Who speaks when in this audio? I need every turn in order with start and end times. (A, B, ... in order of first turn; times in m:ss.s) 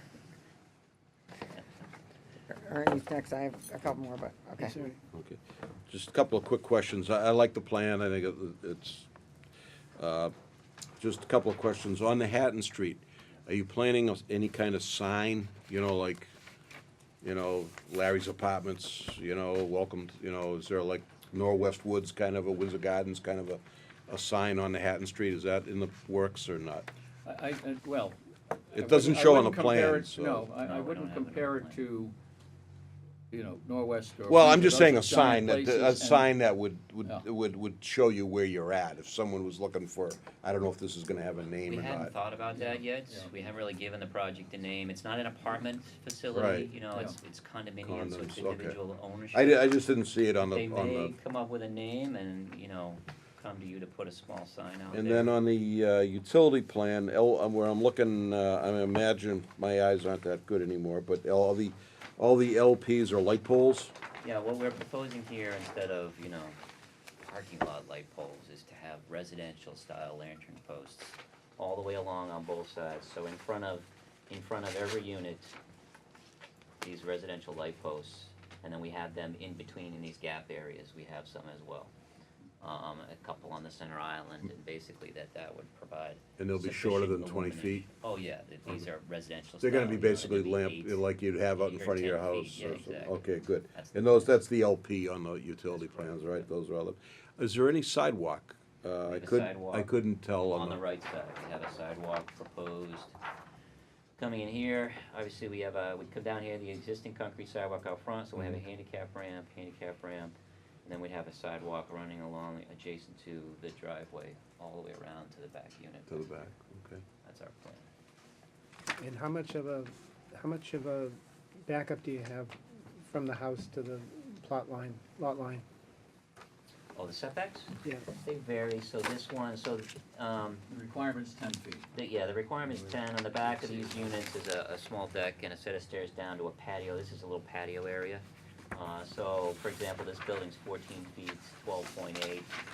0:02.5-0:04.8 A
0:05.1-0:09.1 B
0:10.0-0:10.3 B
0:11.0-0:16.3 B
0:17.2-0:26.9 B
0:27.2-0:28.2 C
0:28.7-0:32.2 C
0:28.7-0:30.5 B
0:30.6-0:31.8 D
0:33.3-0:36.3 C
0:34.3-0:42.2 B
0:41.6-0:49.7 D
0:42.6-0:43.4 C
0:46.3-0:46.7 B
0:47.8-0:48.8 B
0:49.3-0:51.1 B
0:50.5-0:55.3 D
0:54.9-1:03.9 B
1:04.2-1:06.6 D
1:07.2-1:15.6 D
1:16.8-1:21.9 D
1:22.6-1:33.2 D
1:26.4-1:27.9 B
1:29.6-1:40.8 B
1:33.7-1:34.4 D
1:35.7-1:36.5 D
1:39.1-1:39.9 D
1:40.5-1:43.2 D
1:44.2-1:56.4 D
1:56.1-1:57.0 B
1:57.2-1:57.8 D
1:59.0-2:05.6 E
2:06.9-2:10.6 D
2:10.7-2:11.9 C
2:11.9-2:22.5 D
2:12.7-2:14.2 C